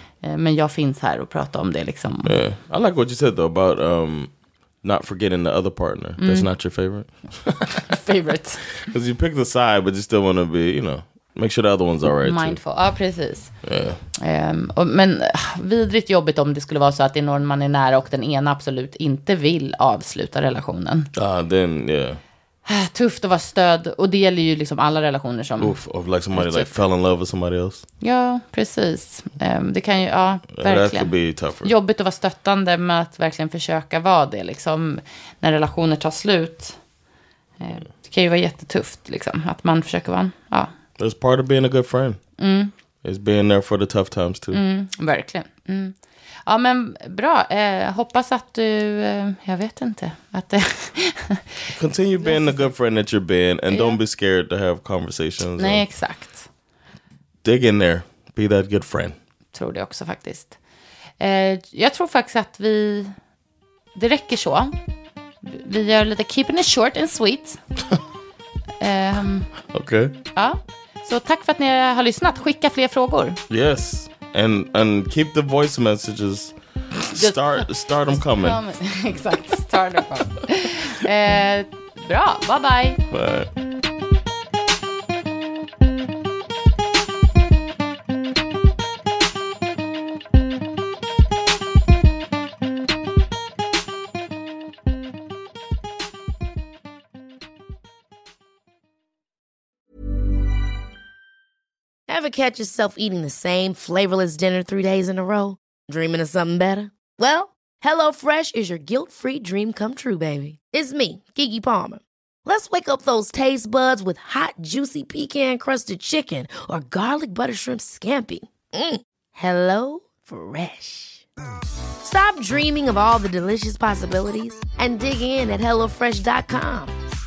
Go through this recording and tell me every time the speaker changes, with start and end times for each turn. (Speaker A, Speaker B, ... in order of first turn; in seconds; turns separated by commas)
Speaker A: 0.2-2.4, Speaker B: 2.2-4.3, Speaker B: 4.8-7.9, Speaker A: 6.2-6.5, Speaker A: 7.9-8.7, Speaker B: 8.9-12.6, Speaker A: 12.2-13.5, Speaker B: 13.6-14.0, Speaker A: 14.2-21.1, Speaker B: 21.1-22.2, Speaker A: 22.7-25.8, Speaker B: 25.6-27.9, Speaker A: 26.3-26.7, Speaker A: 28.0-36.8, Speaker B: 30.5-31.7, Speaker A: 37.6-40.7, Speaker B: 41.0-42.2, Speaker A: 42.4-42.7, Speaker B: 43.0-44.6, Speaker A: 44.5-46.0, Speaker A: 46.5-52.7, Speaker B: 51.7-55.8, Speaker A: 53.7-54.0, Speaker A: 55.6-56.5, Speaker B: 57.4-59.2, Speaker A: 59.5-60.6, Speaker A: 61.2-63.1, Speaker A: 64.0-64.7, Speaker A: 65.4-67.6, Speaker A: 68.8-69.5, Speaker B: 69.7-70.1, Speaker A: 70.3-73.4, Speaker B: 73.5-78.6, Speaker A: 77.1-83.0, Speaker B: 83.1-83.5, Speaker C: 102.1-121.2, Speaker C: 122.0-126.9